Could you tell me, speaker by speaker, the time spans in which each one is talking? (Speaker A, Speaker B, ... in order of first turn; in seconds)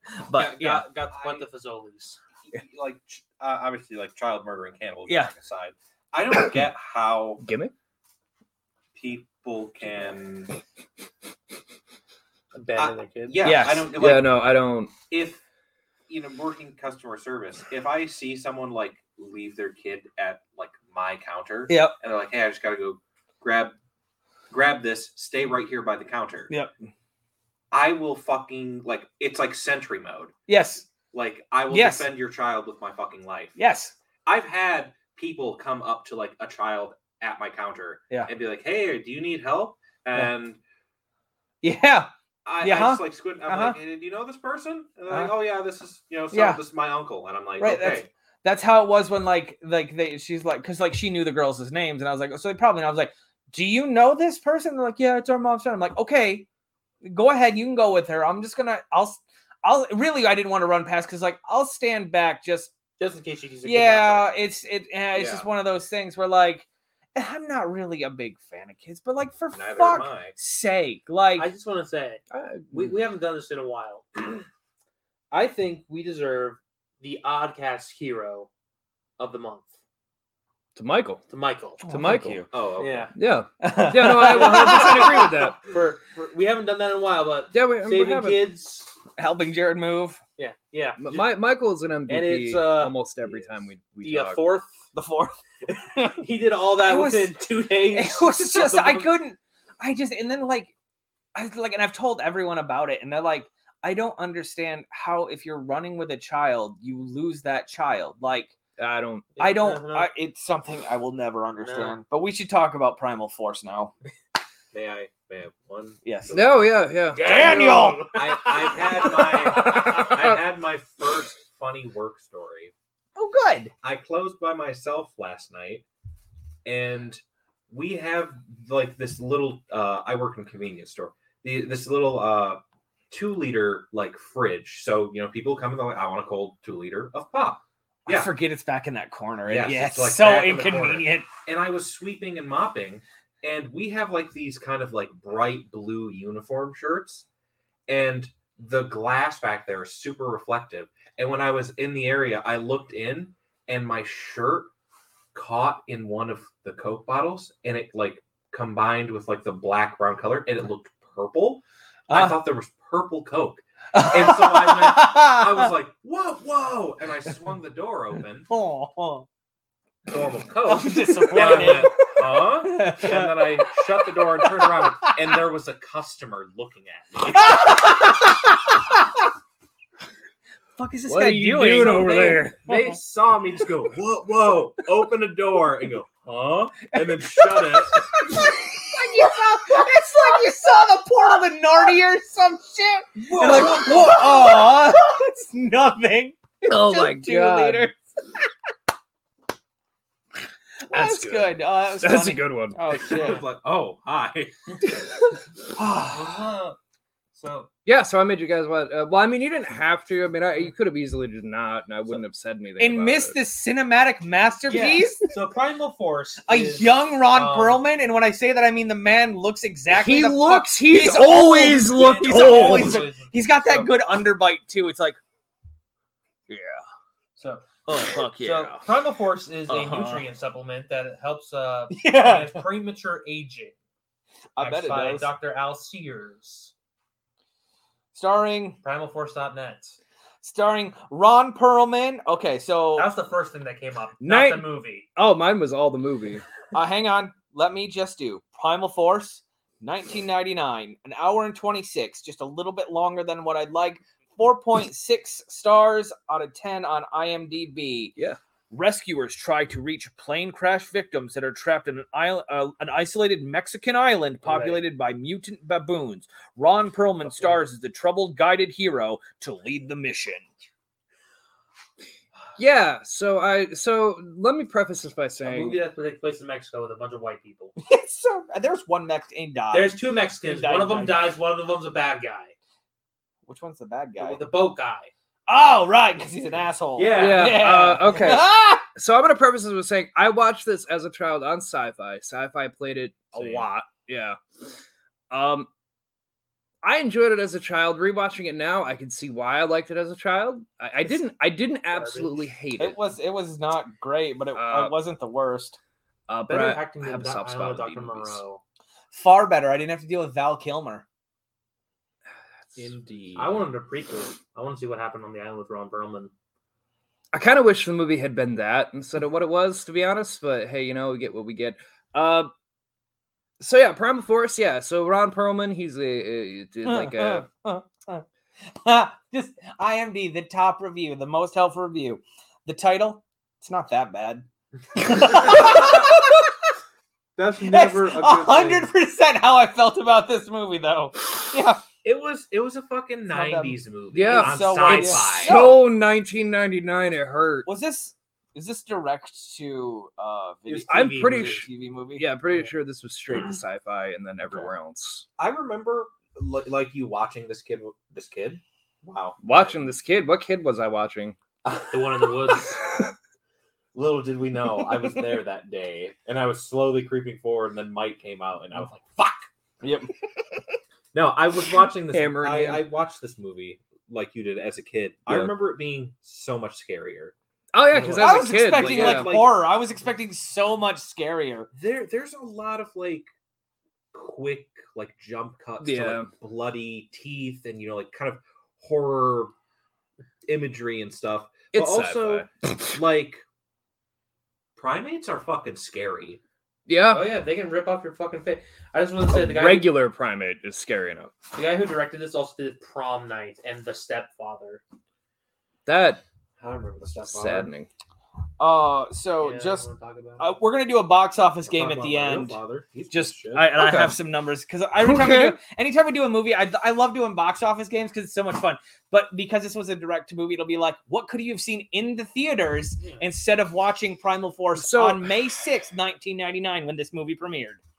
Speaker A: 0.2-0.9, 5.1-5.3, 13.4-13.9, 21.7-22.0, 30.5-30.9, 31.7-32.1, 33.6-33.9, 41.6-43.8, 46.3-46.6, 47.6-56.5, 57.0-62.7, 63.6-71.5, 81.8-82.5, 83.6-85.4, 89.2-90.2, 94.9-96.2, 96.8-100.7, 101.3-108.5, 109.4-113.9, 116.0-116.5, 117.2-118.1, 123.2-123.7, 138.1-141.3, 162.1-162.4, 163.9-165.7, 168.5-169.3, 170.7-175.4, 177.3-179.2, 180.8-182.7, 186.9-197.9, 200.8-203.4, 205.8-206.5, 212.8-215.3, 216.5-225.2, 226.5-226.8, 227.9-228.8, 229.7-230.2, 231.9-232.6, 234.6-235.3, 238.1-238.8, 240.4-243.1, 246.7-258.2, 258.7-270.5, 277.8-281.4, 283.5-284.4, 285.5-288.8, 293.4-293.6, 302.8-305.8, 309.1-311.1, 326.9-336.5, 337.6-341.8, 343.3-345.8, 347.7-352.2, 369.8-370.1, 378.1-381.7, 408.6-409.9, 410.4-412.6, 413.1-427.8
Speaker B: 0.4-2.2, 12.5-13.4, 63.0-64.3, 71.4-74.5, 75.3-78.5, 79.2-79.7, 81.3-81.8, 82.8-83.1, 84.2-88.9, 90.4-91.3, 92.1-93.0, 94.0-94.7, 96.2-99.1, 109.3-110.1, 111.6-112.0, 117.1-119.6, 171.0-171.9, 206.1-206.8, 207.3-207.7, 214.7-217.8, 221.8-223.9, 227.4-233.7, 234.6-236.7, 238.8-240.0, 243.0-245.1, 275.4-277.8, 279.7-282.5, 284.2-285.1, 287.0-288.0, 301.9-302.5, 306.5-308.6, 312.8-316.3, 342.1-345.2, 350.7-351.7, 361.9-362.8, 397.1-399.9, 401.5-404.8, 406.6-407.7, 409.4-410.6, 411.8-412.5
Speaker C: 1.1-1.4, 2.5-7.4, 8.9-10.6, 12.8-15.4, 16.1-23.8, 24.5-26.5, 27.7-30.3, 31.1-33.6, 34.3-40.6, 42.5-48.1, 65.1-65.5, 69.5-70.3, 82.5-83.1, 114.7-116.4, 118.1-122.7, 123.8-125.8, 126.7-138.3, 139.5-147.2, 147.9-154.7, 155.3-168.5, 170.1-178.1, 182.6-188.2, 193.3-194.5, 202.9-204.8, 337.4-338.9, 342.9-345.6, 355.4-359.6, 361.6-362.4, 363.9-369.5, 371.1-377.4, 377.9-379.6, 381.7-383.3, 384.1-389.5, 390.5-393.4, 394.8-396.4, 411.8-413.7
Speaker D: 7.4-7.7, 14.0-14.9, 72.3-73.0, 80.8-81.2, 81.9-82.4, 83.2-85.6, 87.5-88.5, 91.0-94.5, 108.8-109.3, 116.3-117.9, 119.4-120.4, 181.1-182.6, 196.6-197.9, 200.9-202.8, 207.9-213.4, 219.9-223.1, 244.2-246.4, 272.6-275.8, 287.1-294.4, 295.3-295.7, 296.8-303.0, 304.6-304.9, 306.3-308.4, 312.6-313.6, 317.3-322.5, 323.6-327.5, 344.1-347.7, 350.9-355.3, 359.4-361.4, 372.1-372.9, 375.3-375.6, 377.7-379.3, 385.8-386.3, 391.7-392.5, 396.9-397.3, 399.3-401.3, 405.9-406.2, 407.2-407.9, 413.8-414.1, 415.0-415.6, 424.8-425.3